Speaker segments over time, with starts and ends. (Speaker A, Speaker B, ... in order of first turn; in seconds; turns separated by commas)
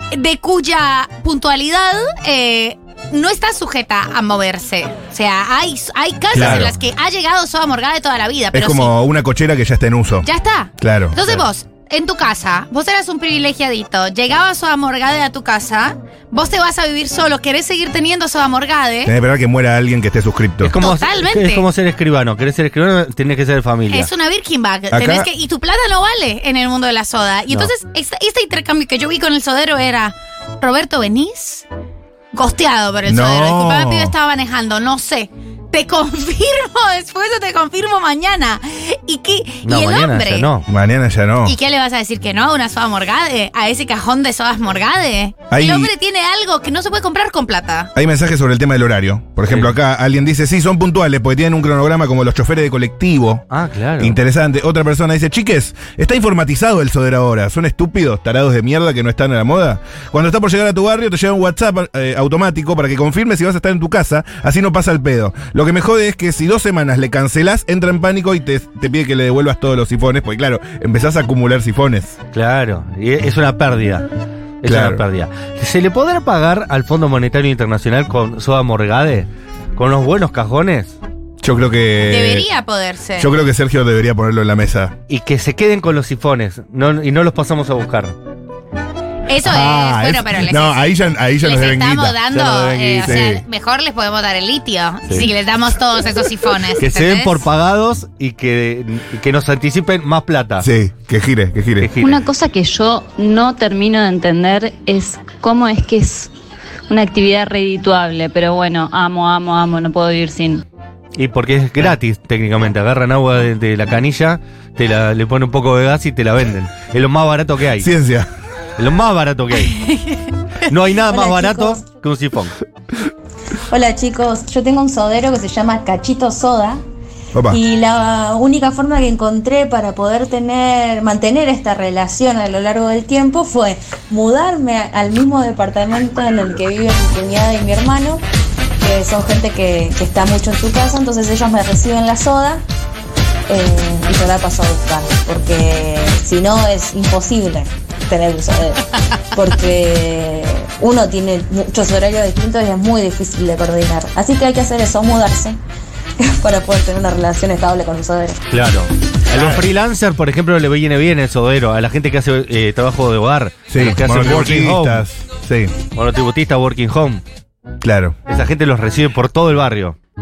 Speaker A: 0.1-8.9, Speaker B: 6.3-6.7, Speaker B: 8.5-10.3, Speaker A: 10.2-19.1, Speaker B: 10.8-11.2, Speaker B: 19.1-20.8, Speaker C: 20.6-24.1, Speaker A: 20.8-21.6, Speaker A: 23.9-31.7, Speaker B: 24.9-25.3, Speaker A: 32.3-40.5, Speaker B: 33.1-34.1, Speaker C: 39.6-40.6, Speaker B: 40.7-41.5, Speaker A: 41.4-47.9, Speaker B: 45.5-45.9, Speaker B: 48.0-53.4, Speaker C: 49.5-49.8, Speaker C: 53.5-54.2, Speaker B: 54.0-72.2, Speaker C: 72.3-74.1, Speaker C: 74.6-81.0, Speaker B: 74.6-75.0, Speaker B: 81.4-82.5, Speaker A: 82.1-83.3, Speaker B: 83.2-85.0, Speaker C: 85.1-88.2, Speaker A: 89.3-90.9, Speaker B: 89.4-92.2, Speaker A: 91.4-97.4, Speaker C: 92.3-93.3, Speaker B: 93.1-93.4, Speaker C: 96.8-100.7, Speaker B: 100.6-101.9, Speaker C: 101.8-102.2, Speaker D: 102.0-106.3, Speaker D: 106.9-110.6, Speaker C: 111.2-117.9, Speaker B: 117.8-118.3, Speaker C: 118.8-119.8, Speaker A: 119.6-120.2, Speaker C: 120.7-122.5, Speaker E: 121.1-121.8, Speaker E: 123.7-126.8, Speaker B: 127.3-127.6, Speaker E: 127.5-138.2, Speaker E: 138.8-142.6, Speaker E: 143.5-155.6, Speaker E: 156.2-158.4, Speaker C: 158.5-165.1, Speaker B: 159.3-159.6, Speaker B: 163.7-165.7, Speaker C: 165.9-167.2, Speaker B: 167.8-168.2, Speaker C: 168.3-170.0